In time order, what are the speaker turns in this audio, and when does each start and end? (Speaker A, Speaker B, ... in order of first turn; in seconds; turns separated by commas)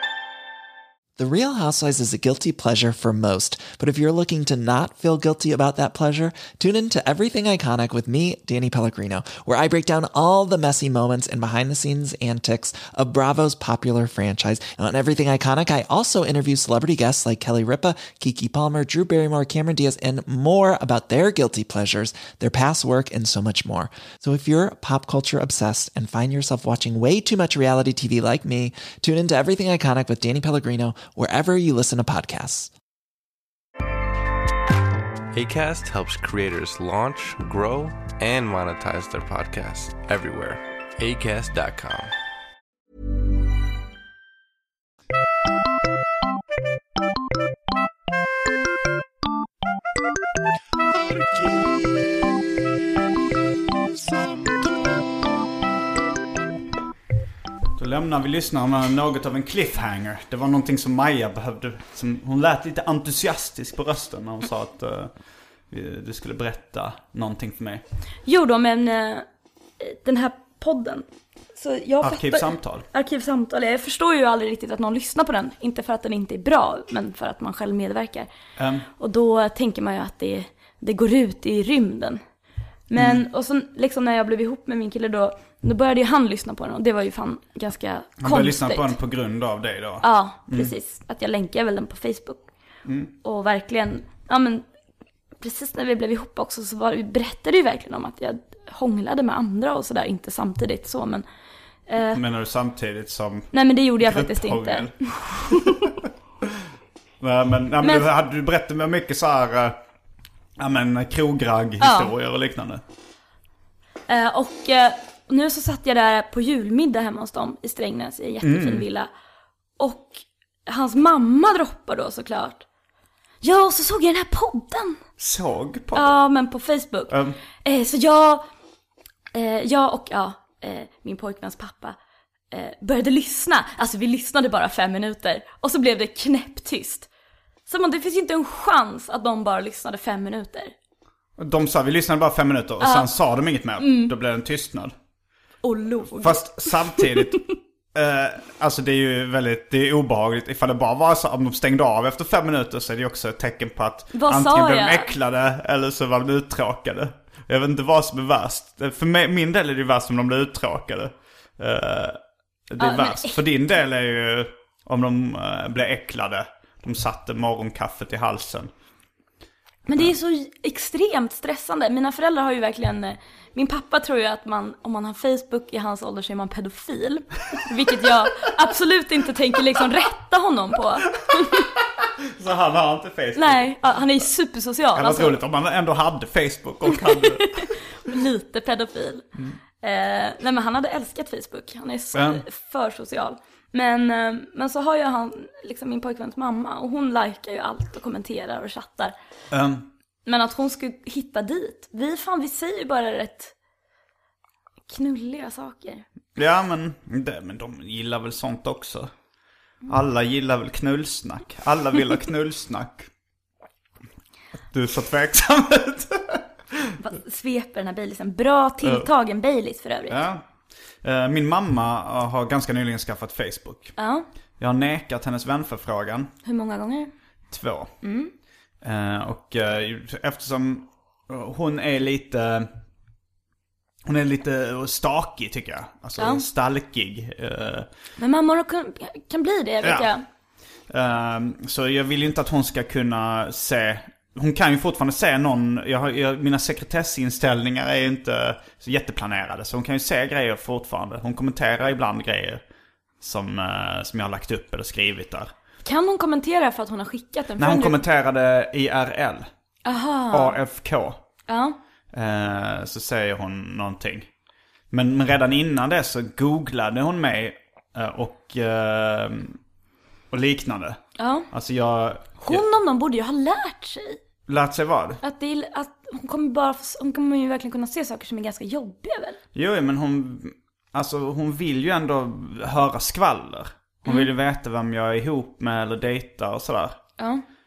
Speaker A: 1.2-32.7, Speaker B: 35.3-42.1, Speaker C: 57.8-65.2, Speaker C: 65.7-67.8, Speaker D: 68.2-69.3, Speaker D: 69.8-78.3, Speaker C: 72.0-72.9, Speaker C: 78.6-78.9, Speaker D: 79.0-82.2, Speaker D: 82.9-88.9, Speaker C: 83.0-83.2, Speaker C: 88.2-90.7, Speaker D: 90.0-92.5, Speaker C: 92.8-93.1, Speaker D: 93.2-94.7, Speaker D: 95.4-101.2, Speaker D: 101.9-102.2, Speaker C: 102.1-106.1, Speaker D: 103.5-106.0, Speaker C: 107.2-109.8, Speaker D: 107.8-108.1, Speaker C: 110.6-112.8, Speaker D: 111.8-112.1, Speaker D: 114.1-119.1, Speaker C: 118.4-118.9, Speaker D: 119.8-122.7, Speaker D: 123.4-125.0, Speaker C: 125.2-126.2, Speaker D: 126.0-128.5, Speaker C: 127.1-127.4, Speaker D: 129.3-132.0, Speaker D: 132.5-137.1, Speaker D: 137.7-140.7, Speaker C: 141.4-144.9, Speaker D: 142.8-143.1, Speaker D: 143.8-144.1, Speaker D: 145.6-147.5, Speaker C: 146.2-147.4, Speaker C: 147.9-162.2, Speaker D: 154.1-155.1, Speaker C: 162.7-168.7, Speaker D: 162.8-163.4, Speaker D: 169.9-181.7, Speaker C: 182.2-183.8, Speaker D: 183.4-185.4, Speaker C: 184.9-187.7, Speaker D: 186.9-189.3, Speaker D: 189.8-199.2, Speaker C: 192.1-192.4, Speaker C: 199.5-199.9, Speaker D: 200.3-203.5, Speaker D: 204.9-206.1, Speaker C: 206.3-209.1, Speaker C: 209.9-213.1, Speaker C: 214.7-216.9, Speaker D: 217.0-220.2, Speaker C: 218.8-219.1, Speaker C: 220.1-223.9, Speaker D: 224.0-224.3, Speaker C: 224.6-226.3, Speaker D: 226.4-227.1, Speaker C: 227.5-227.9, Speaker D: 228.0-228.3, Speaker C: 228.8-232.7, Speaker C: 234.1-237.9, Speaker D: 236.2-236.4, Speaker D: 238.2-240.2, Speaker C: 239.8-240.1, Speaker C: 240.9-252.6, Speaker C: 253.2-255.5, Speaker D: 255.8-258.0, Speaker C: 257.6-259.5, Speaker D: 259.9-260.6, Speaker C: 260.3-261.2, Speaker D: 261.5-261.8, Speaker C: 262.1-264.3, Speaker C: 264.9-269.6, Speaker C: 270.3-272.6, Speaker D: 271.2-271.5, Speaker D: 272.4-274.2, Speaker C: 274.5-275.2, Speaker D: 275.2-279.4, Speaker C: 279.5-287.0, Speaker D: 287.2-287.4